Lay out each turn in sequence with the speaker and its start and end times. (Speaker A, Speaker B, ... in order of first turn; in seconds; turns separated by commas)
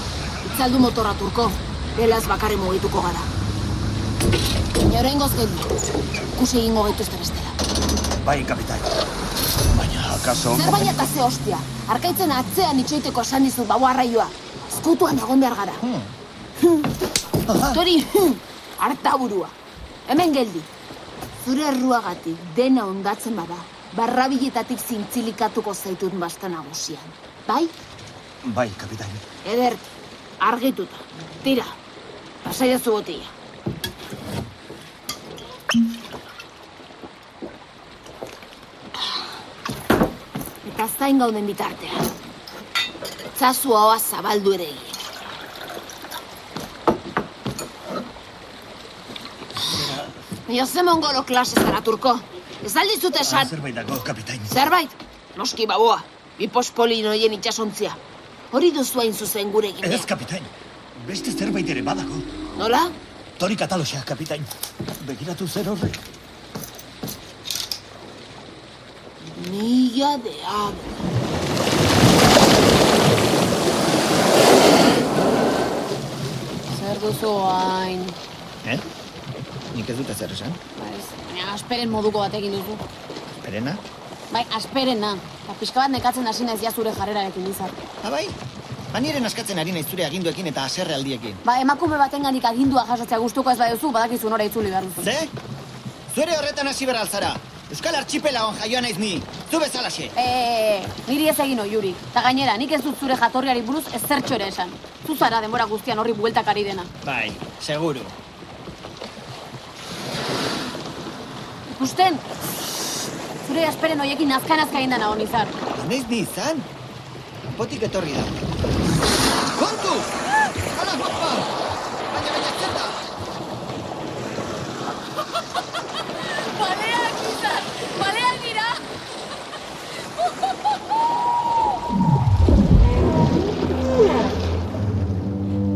Speaker A: 0.5-3.3, Speaker A: 4.8-5.7, Speaker A: 6.3-7.6, Speaker B: 8.2-8.9, Speaker B: 9.7-10.8, Speaker A: 10.5-15.8, Speaker B: 17.5-17.8, Speaker A: 17.7-19.5, Speaker A: 20.1-20.7, Speaker A: 21.4-27.7, Speaker B: 28.4-29.2, Speaker A: 29.4-29.8, Speaker A: 30.4-31.7, Speaker A: 32.4-33.3, Speaker A: 40.6-42.0, Speaker A: 43.3-45.0, Speaker A: 50.5-53.5, Speaker B: 53.2-54.5, Speaker A: 54.5-58.0, Speaker A: 58.5-60.1, Speaker B: 59.8-62.2, Speaker A: 62.6-62.9, Speaker B: 63.4-64.5, Speaker B: 65.0-66.0, Speaker A: 69.2-70.9, Speaker C: 76.7-78.2, Speaker D: 79.7-80.6, Speaker C: 80.7-82.8, Speaker D: 83.4-83.8, Speaker C: 84.3-87.8, Speaker D: 88.0-88.4, Speaker D: 88.9-91.4, Speaker C: 91.4-95.1, Speaker D: 95.0-95.3, Speaker D: 96.1-100.1, Speaker C: 100.2-106.9, Speaker D: 107.0-108.2, Speaker C: 111.8-112.2, Speaker C: 113.4-115.5, Speaker D: 115.7-116.7, Speaker D: 117.5-118.4, Speaker D: 119.5-120.1, Speaker D: 120.7-121.5, Speaker D: 122.1-123.0, Speaker C: 126.2-128.9, Speaker C: 130.2-130.5